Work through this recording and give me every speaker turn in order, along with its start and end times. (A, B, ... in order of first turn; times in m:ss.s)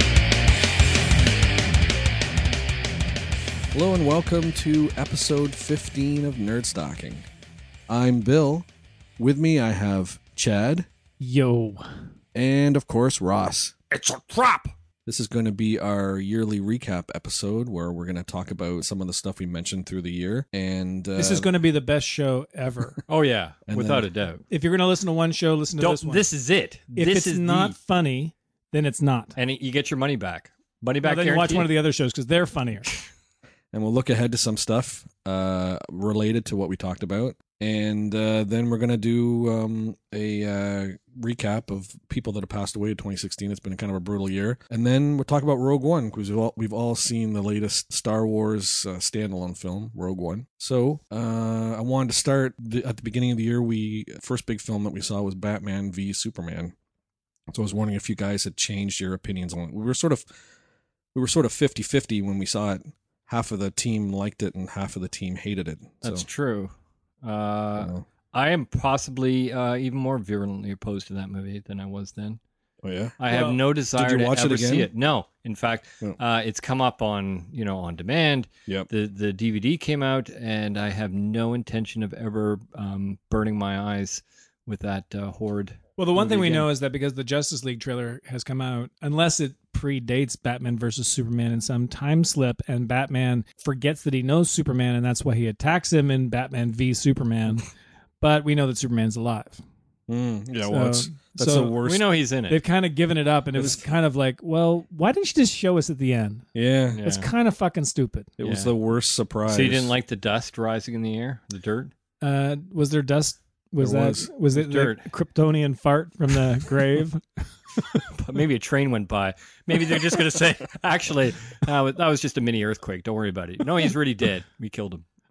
0:03.7-0:07.3 A
0:07.9-0:08.7 A
0:09.2-0:10.9 A
0:11.2-0:11.8 B
0:12.3-0:13.8 A
0:13.9-0:14.7 C
0:15.0-0:21.5 A
0:21.2-0:23.0 B
0:23.1-0:24.4 C
0:23.7-0:24.1 A
0:24.5-0:26.3 B
0:25.8-0:27.8 C
0:26.9-0:29.3 B
0:29.4-0:31.7 C
0:31.0-0:32.9 B
0:33.7-0:56.7 A
0:57.5-1:00.3 A
1:01.1-1:06.2 A
1:06.0-1:12.4 C
1:07.8-1:08.0 A
1:12.8-1:13.2 A
1:13.2-1:26.6 C
1:13.3-1:13.6 B
1:13.9-1:14.9 A
1:26.0-1:37.7 B
1:26.2-1:26.6 A
1:38.2-1:39.6 B
1:40.1-1:42.0 A
1:40.7-1:41.8 B
1:41.8-1:42.6 C
1:42.5-1:46.4 B
1:46.5-1:47.0 A
1:46.9-1:47.2 C
1:47.0-1:48.3 B
1:48.4-1:49.9 A
1:48.4-1:48.7 C
1:49.4-1:51.9 C
1:52.2-1:58.0 B
1:53.8-1:54.3 A
1:54.5-1:55.1 C
1:58.0-2:05.0 C